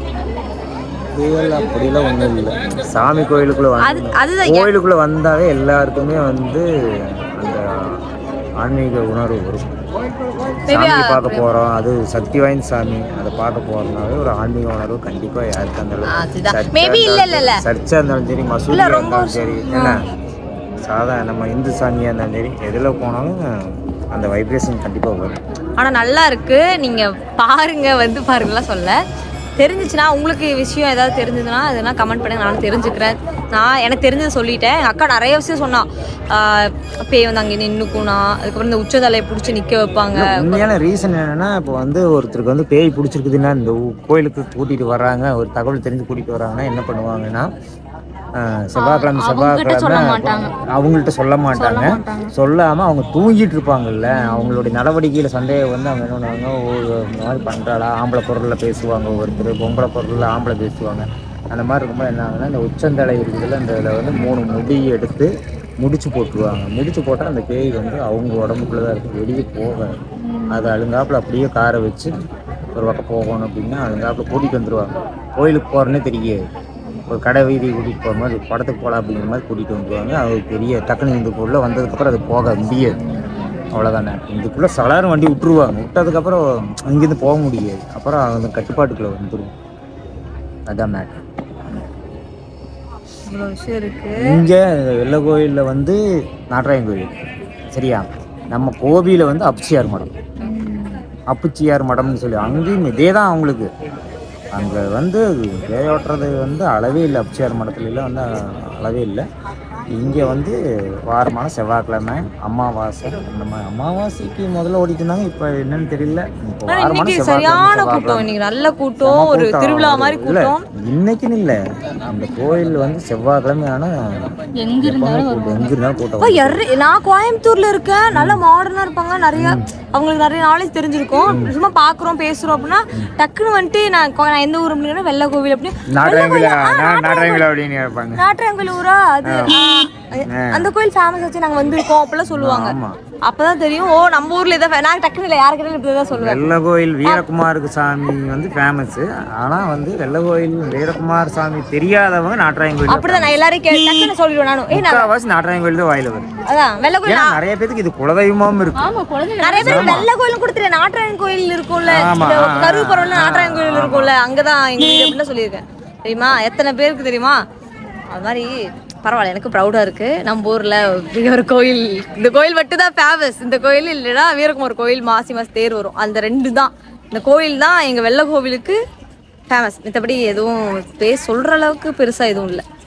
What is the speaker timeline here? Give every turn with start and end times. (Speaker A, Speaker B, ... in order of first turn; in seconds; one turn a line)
Speaker A: 1.1-8.0
Speaker B: 3.8-4.7
Speaker A: 8.6-19.9
Speaker B: 10.7-11.5
Speaker B: 16.1-17.6
Speaker B: 18.7-19.9
Speaker A: 20.8-23.4
Speaker A: 24.1-25.4
Speaker B: 25.8-28.9
Speaker B: 29.6-40.7
Speaker A: 40.1-47.5
Speaker A: 48.4-69.9
Speaker B: 48.8-50.5
Speaker B: 51.5-52.3
Speaker C: 70.2-70.7
Speaker A: 70.5-72.1
Speaker A: 72.7-76.4
Speaker A: 77.1-83.0
Speaker A: 83.7-89.5
Speaker A: 90.7-91.2
Speaker B: 93.2-94.2
Speaker A: 94.2-97.1
Speaker A: 97.7-100.1
Speaker C: 100.5-100.8
Speaker A: 101.3-103.7
Speaker A: 104.5-109.2
Speaker A: 109.9-110.5
Speaker A: 111.1-118.3
Speaker B: 116.7-120.7
Speaker A: 119.0-126.6
Speaker C: 124.6-125.7
Speaker B: 126.2-137.4
Speaker A: 128.1-128.4
Speaker A: 129.3-129.7
Speaker A: 131.3-131.5
Speaker A: 135.9-138.2
Speaker B: 138.2-146.5
Speaker A: 139.3-139.6
Speaker A: 140.3-140.7
Speaker A: 142.3-143.0
Speaker A: 146.1-154.1
Speaker B: 152.9-155.1
Speaker A: 154.7-156.4
Speaker B: 156.4-157.4
Speaker A: 157.0-158.9
Speaker C: 158.7-160.0
Speaker B: 159.4-167.4
Speaker A: 159.6-160.1
Speaker A: 161.8-164.1
Speaker B: 168.1-168.5
Speaker B: 169.0-178.8
Speaker B: 179.5-182.6